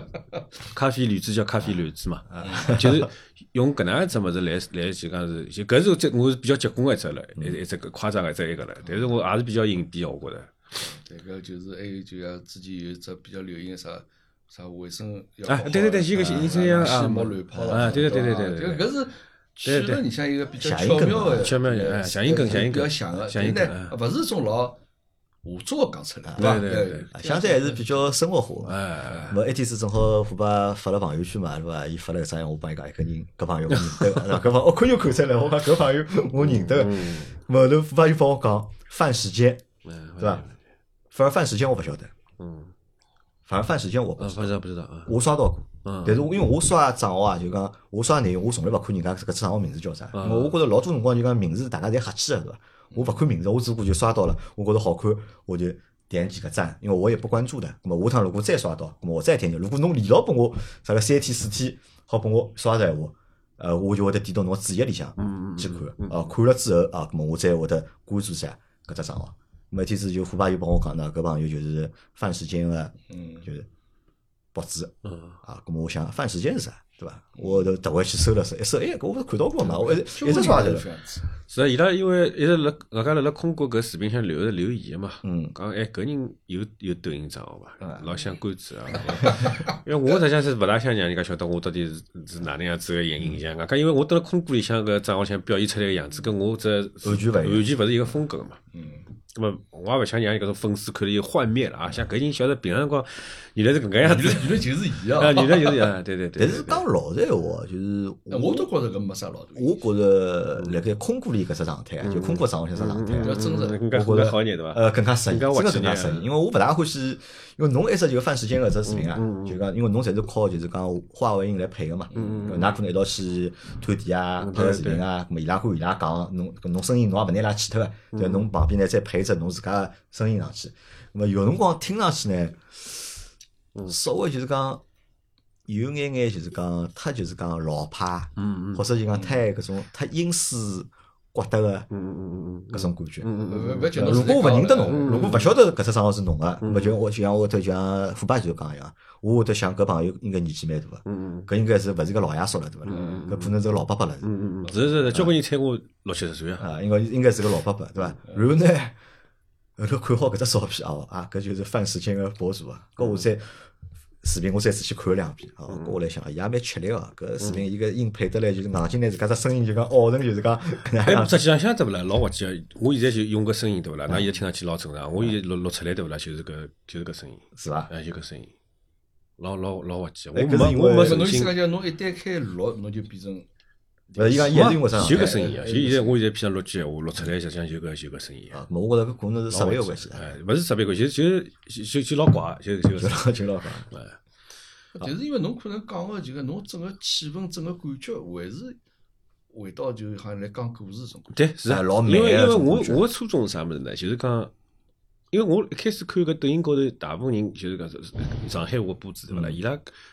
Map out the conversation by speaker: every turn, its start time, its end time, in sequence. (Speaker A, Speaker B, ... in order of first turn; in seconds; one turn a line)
Speaker A: 0.7-10.5
Speaker B: 2.3-3.1
Speaker C: 2.4-2.8
Speaker C: 10.8-24.8
Speaker A: 15.5-18.9
Speaker B: 17.5-18.0
Speaker A: 19.6-20.1
Speaker B: 20.6-21.6
Speaker A: 21.3-24.0
Speaker C: 25.4-28.0
Speaker A: 26.4-27.1
Speaker B: 27.1-28.8
Speaker A: 28.6-29.4
Speaker C: 29.1-29.4
Speaker B: 29.3-39.6
Speaker A: 33.9-34.4
Speaker A: 36.4-37.4
Speaker A: 39.9-40.5
Speaker B: 40.2-40.5
Speaker B: 41.1-42.1
Speaker A: 42.4-42.7
Speaker B: 43.5-73.7
Speaker A: 44.2-45.1
Speaker A: 45.8-46.2
Speaker A: 50.1-50.6
Speaker A: 65.2-66.3
Speaker C: 73.1-73.5
Speaker B: 74.5-80.9
Speaker A: 75.0-75.4
Speaker C: 79.6-81.2
Speaker A: 81.5-98.6
Speaker B: 85.2-85.5
Speaker B: 87.8-88.1
Speaker C: 89.2-89.8
Speaker B: 97.0-97.7
Speaker C: 98.7-99.1
Speaker A: 99.3-106.9
Speaker C: 104.0-106.0
Speaker B: 106.4-108.7
Speaker C: 108.3-109.8
Speaker B: 109.5-113.4
Speaker A: 112.0-116.3
Speaker C: 113.2-113.8
Speaker B: 113.9-133.2
Speaker A: 118.9-119.6
Speaker C: 122.1-122.5
Speaker A: 122.1-122.7
Speaker A: 124.4-125.0
Speaker A: 128.1-128.5
Speaker B: 133.9-134.8
Speaker B: 135.7-141.9
Speaker A: 138.4-138.8
Speaker A: 141.9-145.5
Speaker B: 142.7-143.3
Speaker C: 143.4-145.5
Speaker B: 143.9-154.3
Speaker A: 146.6-147.0
Speaker A: 151.1-151.5
Speaker A: 152.9-153.6
Speaker C: 152.9-153.2
Speaker A: 154.2-156.7
Speaker C: 154.7-154.9
Speaker B: 156.6-159.0
Speaker B: 159.8-163.7
Speaker B: 164.2-171.4
Speaker A: 165.7-166.0
Speaker A: 171.1-178.5
Speaker B: 177.6-177.9
Speaker A: 179.4-181.6
Speaker B: 180.3-181.4
Speaker C: 181.0-183.5
Speaker C: 184.1-186.2
Speaker B: 184.2-185.5
Speaker A: 184.4-188.6
Speaker B: 188.5-190.3
Speaker A: 189.5-193.3
Speaker B: 192.9-193.9
Speaker A: 193.9-194.2
Speaker C: 194.9-198.8
Speaker C: 199.5-201.4
Speaker A: 201.3-204.5
Speaker B: 201.7-203.1
Speaker A: 205.3-209.9
Speaker B: 209.3-209.6